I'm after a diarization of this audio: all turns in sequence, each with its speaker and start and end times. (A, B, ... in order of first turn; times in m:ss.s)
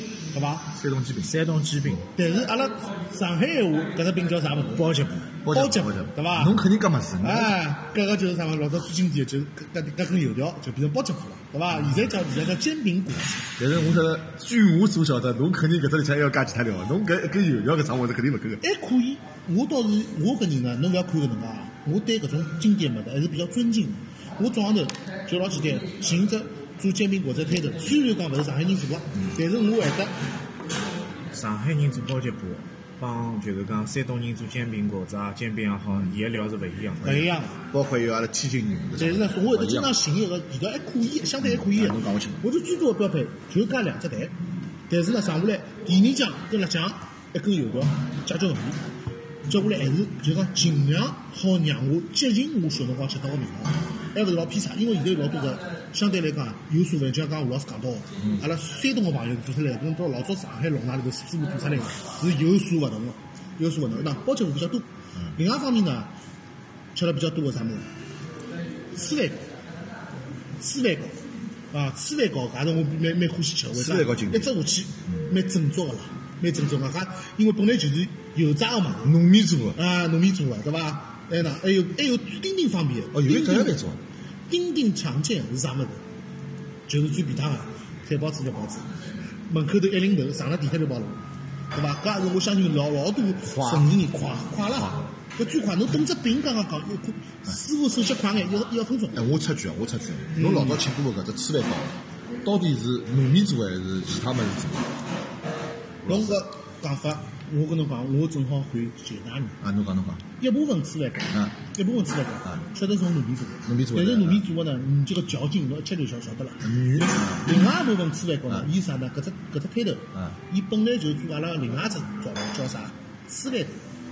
0:00.3-0:00.7 A
0:00.7-0:01.3 B
0:01.2-0:02.1 C
0:02.2-0:04.9 A
0:04.8-0:05.3 C
0:05.4-0:07.6 B
0:05.5-0:06.6 A
0:07.2-0:13.5 A
0:13.6-0:18.6 B
0:18.6-0:30.1 A
0:31.3-0:37.3 C
0:37.0-0:37.6 A
0:37.7-0:39.9 B
0:39.0-0:44.3 A
0:41.4-0:42.4 B
0:44.9-0:48.8 A
0:49.5-1:06.1 A
0:58.2-0:58.4 B
1:06.9-1:07.9 A
1:08.9-1:09.4 A
1:10.6-1:11.2 A
1:11.7-1:19.2 A
1:13.7-1:14.6 B
1:19.0-1:19.8 B
1:19.7-1:23.8 A
1:23.1-1:24.0 B
1:24.5-1:26.0 A
1:26.9-1:28.9 A
1:29.5-1:39.3 A
1:33.5-1:34.0 B
1:39.1-1:44.9 B
1:40.4-1:40.8 A
1:46.0-1:46.4 B
1:46.1-1:49.6 A
1:49.6-1:50.3 B
1:50.4-2:03.8 A
1:51.3-1:51.6 B
1:53.7-1:54.4 B
1:56.6-1:57.6 B